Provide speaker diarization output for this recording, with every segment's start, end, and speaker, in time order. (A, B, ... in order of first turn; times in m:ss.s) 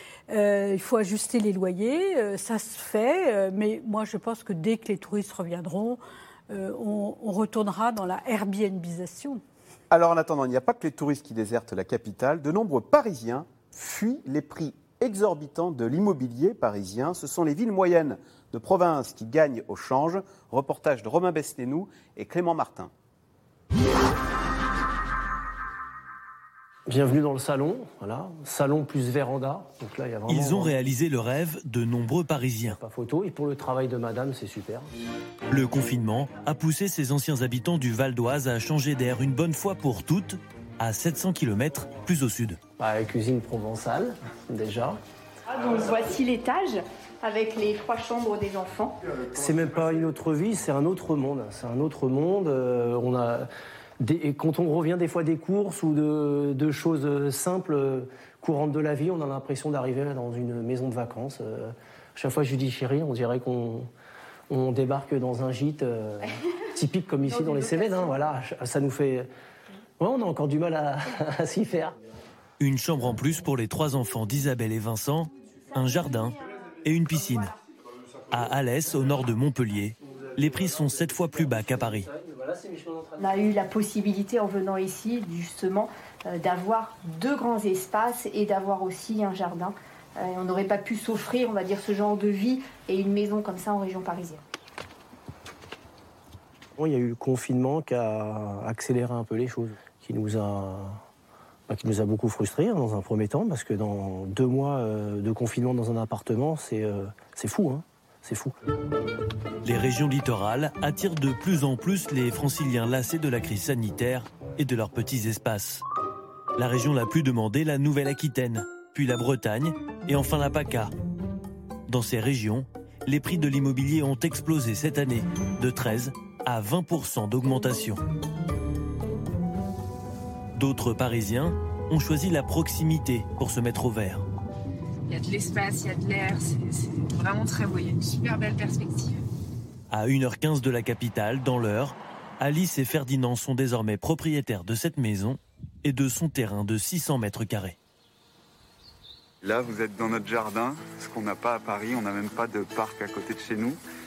0:00.3-0:09.4 A
0:09.9-0:22.9 B
0:26.9-0:30.9 C
0:30.3-0:32.8 D
0:32.7-0:34.9 C
0:35.5-0:42.6 D
0:42.8-0:45.0 C
0:45.5-0:49.0 E
0:49.3-0:53.5 C
0:54.0-1:03.9 C
1:04.5-1:09.3 C
1:07.7-1:08.0 E
1:10.0-1:12.0 C
1:12.6-1:17.5 D
1:18.3-1:22.1 D
1:21.4-1:23.3 C
1:23.2-1:34.4 E
1:36.8-1:41.0 C
1:41.7-1:48.5 C
1:49.6-1:55.8 D
1:56.6-2:00.9 D
2:01.9-2:08.0 D
2:10.6-2:14.2 D
2:15.1-2:19.2 F
2:19.9-2:27.8 D
2:29.4-2:33.8 G